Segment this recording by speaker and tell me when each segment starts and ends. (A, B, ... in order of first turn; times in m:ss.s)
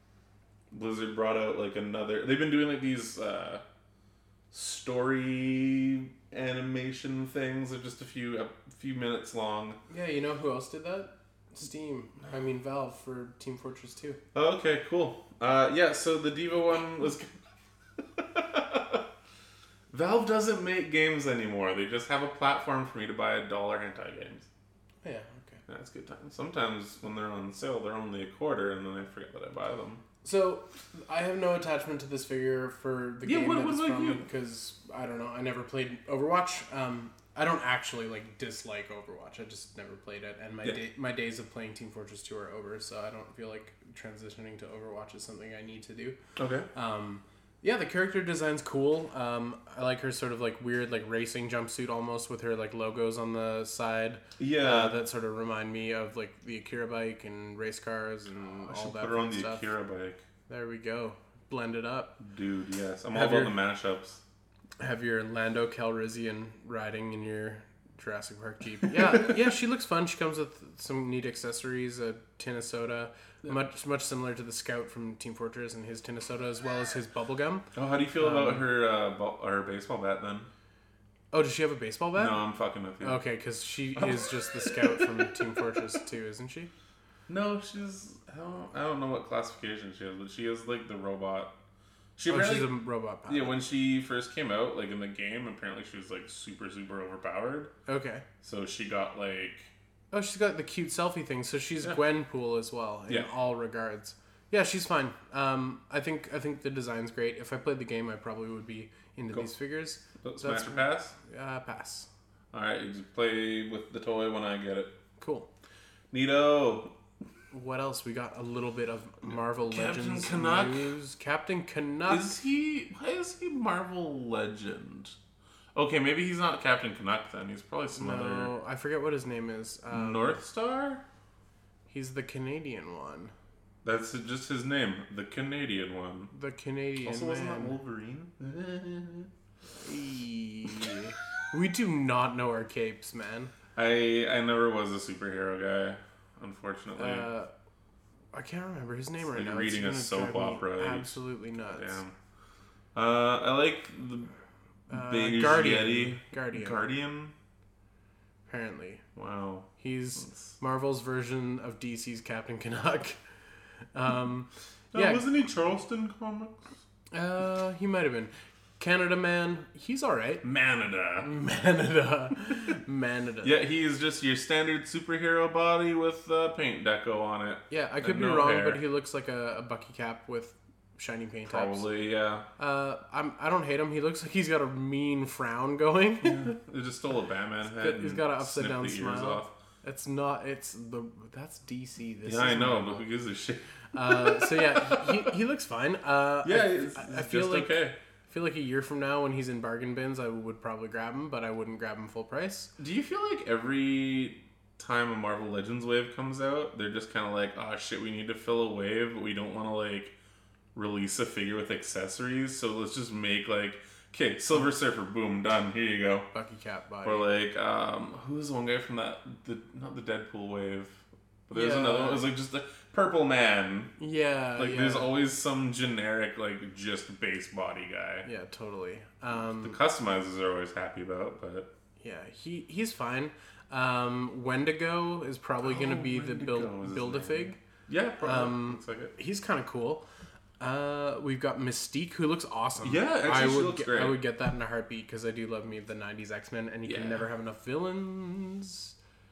0:00.7-0:03.6 A
0:04.5-0:09.8 A
0:09.9-0:14.2 B
0:14.3-0:17.3 A
0:18.0-0:19.0 A
0:19.9-0:24.5 A
0:25.0-0:25.6 B
0:25.7-0:30.0 A
0:30.2-0:46.2 B
0:33.2-0:34.2 A
0:46.4-0:46.7 A
0:46.7-0:59.7 B
0:54.4-0:55.0 A
0:58.7-1:00.2 A
1:00.5-1:02.2 B
1:02.2-1:04.2 A
1:03.1-1:03.6 B
1:04.8-1:17.7 B
1:17.7-1:20.5 A
1:18.2-1:18.7 B
1:21.3-1:22.4 B
1:22.2-1:23.2 A
1:23.0-1:26.7 B
1:24.0-1:25.3 A
1:27.3-1:31.5 A
1:32.2-1:32.7 A
1:32.3-1:33.6 B
1:33.3-1:37.7 A
1:37.9-1:38.2 B
1:38.4-1:39.7 A
1:40.1-1:52.1 B
1:50.2-1:51.2 A
1:52.5-1:55.0 A
1:55.2-1:55.5 B
1:56.1-1:56.9 A
1:57.5-2:02.4 B
1:59.7-2:00.9 A
2:02.1-2:05.2 A
2:05.8-2:08.5 A
2:08.0-2:10.4 B
2:09.9-2:11.0 A
2:11.9-2:13.3 B
2:13.8-2:16.3 A
2:16.3-2:17.8 B
2:17.0-2:19.3 A
2:19.8-2:23.5 B
2:23.8-2:27.3 A
2:27.0-2:27.5 B
2:28.3-2:32.0 B
2:29.3-2:32.1 A
2:33.0-2:34.3 A
2:34.9-2:37.3 A
2:34.9-2:36.8 B
2:38.5-2:39.0 B
2:39.2-2:40.5 A
2:39.8-2:43.2 B
2:43.9-2:45.2 B
2:44.9-2:46.7 A
2:47.1-2:50.4 B
2:50.4-2:51.3 A
2:51.2-2:53.6 B
2:53.4-2:58.8 A
2:57.7-3:01.9 B
3:01.5-3:02.5 A
3:02.6-3:06.6 B
3:06.2-3:09.5 A
3:07.6-3:13.1 B
3:12.2-3:15.3 A
3:13.9-3:17.8 B
3:16.4-3:18.0 A
3:18.3-3:22.7 B
3:22.8-3:30.1 A
3:30.8-3:36.3 A
3:36.3-3:37.3 B
3:37.0-3:43.9 A
3:41.5-3:42.3 B
3:44.0-3:45.1 B
3:44.6-3:48.3 A
3:48.2-3:49.8 B
3:49.5-3:51.7 A
3:52.0-3:57.6 B
3:55.6-3:59.2 A
3:58.2-4:00.0 B
4:00.6-4:09.0 B
4:02.8-4:04.2 A
4:06.8-4:07.2 A